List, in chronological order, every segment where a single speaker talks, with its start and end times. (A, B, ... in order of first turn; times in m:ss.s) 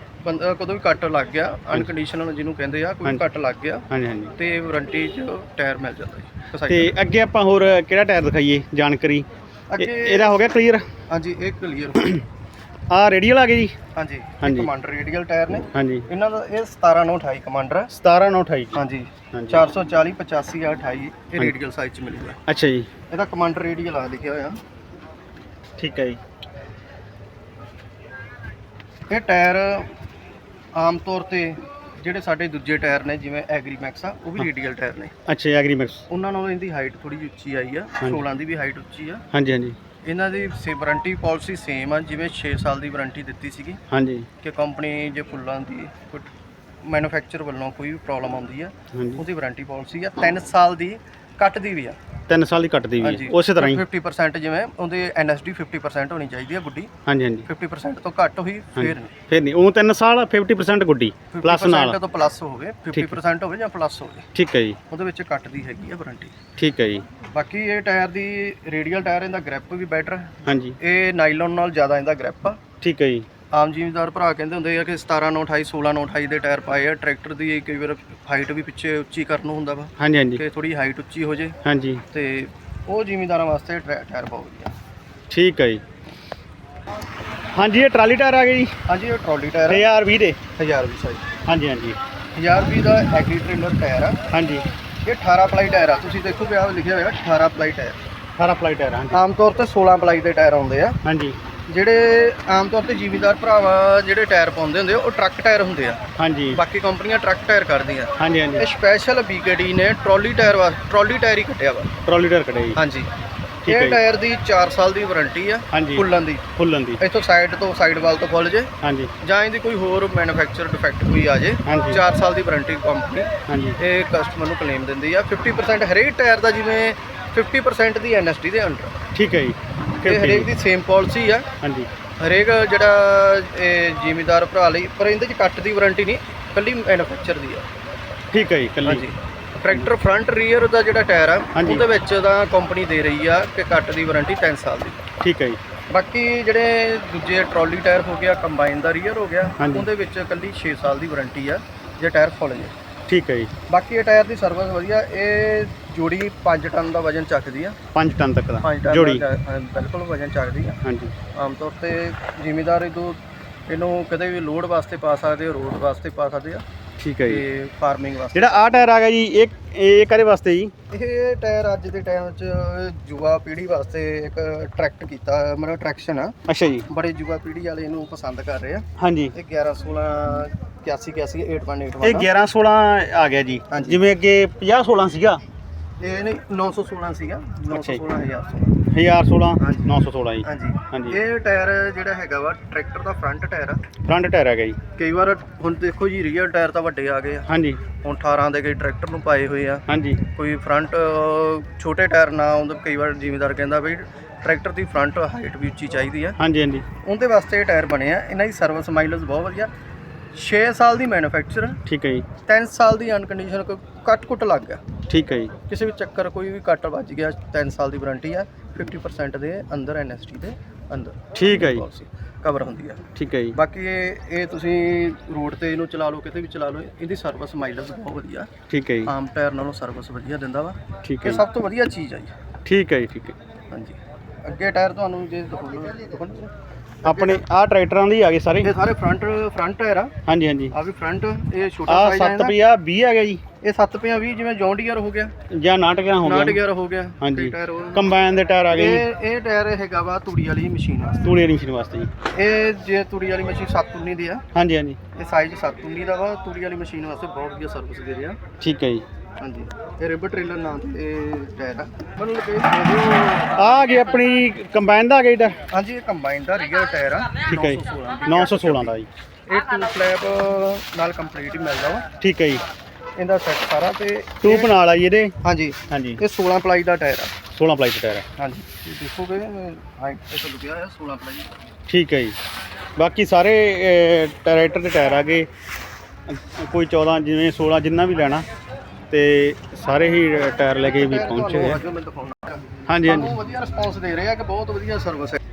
0:00.2-0:06.9 A
0:03.9-0:04.3 B
0:06.7-0:09.2 B
0:09.7-0:10.4 A
0:09.8-0:10.8 B
0:11.1-0:12.1 A
0:12.9-0:13.7 B
0:13.9-0:17.9 A
0:14.4-0:14.7 B
0:15.7-0:16.0 B
0:17.9-0:18.8 B
0:18.7-0:22.4 A
0:19.3-0:19.6 B
0:22.5-0:22.9 B
0:23.1-0:24.6 A
0:25.8-0:26.2 B
0:29.1-0:29.9 A
0:30.7-0:35.1 A
0:35.3-0:36.0 B
0:36.1-0:39.2 A
0:39.3-0:39.8 B
0:40.0-0:43.8 A
0:43.9-0:44.3 B
0:44.4-0:46.3 A
0:46.8-0:52.0 A
0:48.9-0:49.2 B
0:52.3-0:53.8 B
0:53.0-0:56.9 A
0:57.1-0:57.4 B
0:57.4-0:59.1 A
0:58.8-1:02.0 B
1:01.3-1:04.3 A
1:04.3-1:04.8 B
1:04.9-1:06.3 A
1:06.6-1:07.0 B
1:07.3-1:12.6 A
1:10.4-1:10.8 B
1:12.8-1:13.3 B
1:13.5-1:21.6 A
1:20.0-1:20.4 B
1:21.6-1:22.0 B
1:22.1-1:24.7 A
1:25.3-1:25.8 B
1:27.5-1:28.7 B
1:28.9-1:29.8 A
1:29.7-1:30.4 B
1:30.6-1:31.3 A
1:31.5-1:32.0 B
1:32.3-1:34.2 A
1:34.3-1:34.7 B
1:35.0-1:38.0 A
1:38.4-1:39.2 B
1:39.1-1:41.0 A
1:41.0-1:41.4 B
1:41.7-1:46.0 A
1:46.2-1:46.6 B
1:46.5-1:51.9 A
1:48.2-1:48.6 B
1:52.1-1:52.8 B
1:52.8-1:53.1 A
1:53.6-1:54.0 B
1:53.7-1:56.4 A
1:55.7-1:56.0 B
1:56.6-1:57.0 B
1:57.0-1:58.7 A
1:58.8-1:59.1 B
1:59.2-2:09.0 A
2:01.6-2:02.0 B
2:03.5-2:03.8 B
2:09.1-2:10.5 B
2:10.0-2:11.5 A
2:11.6-2:11.9 B
2:12.2-2:17.6 A
2:18.3-2:19.0 B
2:18.8-2:25.0 A
2:21.5-2:21.8 B
2:25.2-2:25.6 B
2:25.9-2:32.7 A
2:29.6-2:29.9 B
2:33.1-2:33.5 B
2:33.7-2:37.8 A
2:37.9-2:39.2 B
2:38.6-2:40.8 A
2:40.8-2:41.1 B
2:41.3-2:46.6 A
2:47.0-2:47.4 B
2:47.2-2:48.6 A
2:48.3-2:50.7 B
2:50.9-2:56.3 A
2:56.5-2:56.8 B
2:56.9-3:02.3 A
2:59.0-2:59.3 B
3:02.0-3:05.4 B
3:03.7-3:04.0 A
3:06.0-3:08.8 A
3:07.7-3:08.0 B
3:08.9-3:11.2 B
3:09.6-3:09.9 A
3:10.4-3:13.9 A
3:14.0-3:14.8 B
3:15.0-3:17.5 A
3:17.5-3:17.8 B
3:18.0-3:26.4 A
3:19.9-3:20.2 B
3:26.4-3:26.8 B
3:27.0-3:29.7 A
3:30.3-3:31.8 A
3:31.9-3:32.2 B
3:32.4-3:34.8 A
3:35.1-3:35.5 B
3:35.7-3:48.5 A
3:41.3-3:41.8 B
3:43.2-3:43.6 B
3:48.7-3:49.1 B
3:49.0-3:52.3 A
3:51.0-3:51.4 B
3:52.6-3:53.3 B
3:53.7-3:56.5 A
3:57.0-3:57.4 A
3:57.0-3:58.7 B
3:58.6-4:00.1 A
4:00.3-4:00.7 B
4:00.7-4:02.5 A
4:01.9-4:03.4 B
4:03.6-4:05.3 A
4:05.5-4:06.6 B
4:06.2-4:08.0 A
4:07.2-4:09.0 B
4:08.7-4:11.2 A
4:11.2-4:12.1 B
4:12.3-4:14.4 A
4:14.5-4:15.0 B
4:15.1-4:18.4 A
4:18.6-4:19.0 B
4:19.4-4:24.0 A
4:23.6-4:25.6 B
4:25.7-4:28.9 A
4:27.4-4:29.1 B
4:29.5-4:32.0 A
4:32.2-4:32.6 B
4:33.2-4:34.7 A
4:34.4-4:35.3 B
4:35.4-4:37.3 A
4:35.9-4:36.2 B
4:37.5-4:38.2 B
4:38.4-4:41.5 A
4:41.9-4:42.3 B
4:43.0-4:45.5 B
4:46.3-4:48.4 B
4:49.1-4:51.8 B
4:50.8-4:55.4 A
4:52.9-4:53.4 B